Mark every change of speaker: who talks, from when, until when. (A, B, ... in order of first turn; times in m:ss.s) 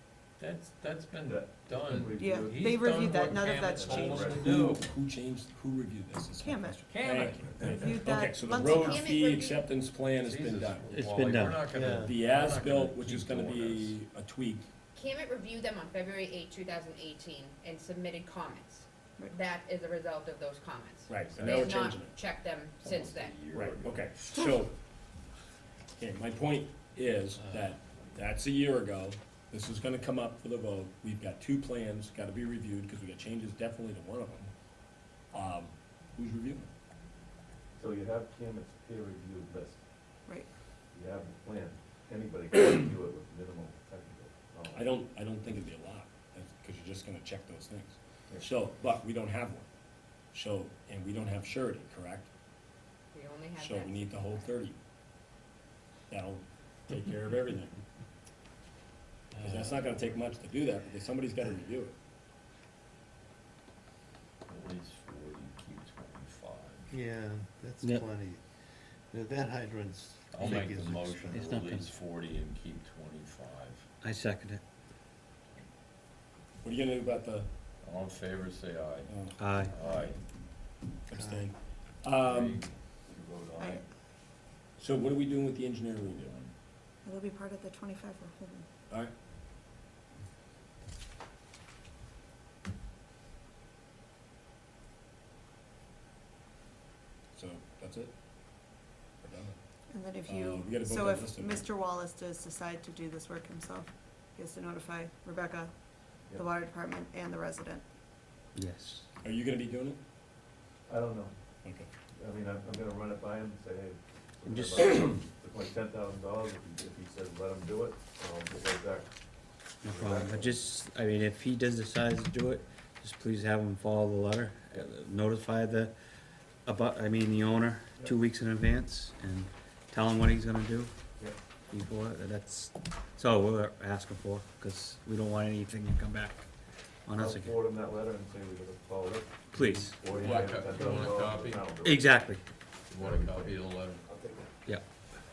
0:00.4-0:04.9 A
0:01.2-0:04.5 B
0:02.2-0:04.3 C
0:03.8-0:10.9 D
0:06.4-0:06.9 C
0:06.9-0:07.5 A
0:07.3-0:07.9 B
0:07.7-0:09.0 C
0:08.6-0:09.6 E
0:10.2-0:14.0 A
0:10.9-0:11.6 F
0:11.7-0:12.2 G
0:12.0-0:14.7 D
0:14.9-0:23.3 E
0:21.1-0:22.1 D
0:22.8-0:24.0 A
0:23.5-0:24.7 D
0:26.0-0:34.5 D
0:35.3-0:36.7 D
0:37.8-0:39.8 B
0:40.9-0:44.9 B
0:44.7-0:49.7 D
0:50.3-0:52.3 D
0:53.1-0:54.2 E
0:53.6-0:54.8 D
0:56.1-0:57.8 D
0:59.4-1:01.9 D
0:59.4-0:59.8 G
1:04.5-1:06.9 A
1:06.9-1:08.4 G
1:09.1-1:11.5 G
1:10.3-1:13.8 A
1:11.3-1:11.9 F
1:14.0-1:14.6 F
1:16.6-1:17.5 D
1:17.8-1:20.2 A
1:19.1-1:19.4 D
1:19.4-1:19.7 F
1:21.1-1:22.6 D
1:21.1-1:21.5 G
1:22.2-1:23.8 A
1:23.6-1:23.8 C
1:24.8-1:26.2 D
1:26.1-1:26.5 A
1:27.0-1:28.6 C
1:37.3-1:38.1 D
1:39.2-1:39.5 D
1:39.9-1:45.7 C
1:40.2-1:41.7 D
1:46.4-1:47.8 C
1:48.6-1:49.1 F
1:49.2-1:50.0 D
1:50.9-1:51.3 B
1:51.6-1:51.9 D
1:52.1-1:59.1 B
1:54.5-1:55.1 F
1:59.8-2:05.9 F
1:59.8-2:00.6 B
2:06.6-2:10.9 F
2:11.7-2:16.4 F
2:17.1-2:17.6 F
2:17.2-2:22.2 B
2:19.5-2:20.0 F
2:20.0-2:21.7 A
2:20.2-2:21.1 D
2:21.8-2:22.4 F
2:22.9-2:24.0 A
2:22.9-2:24.5 B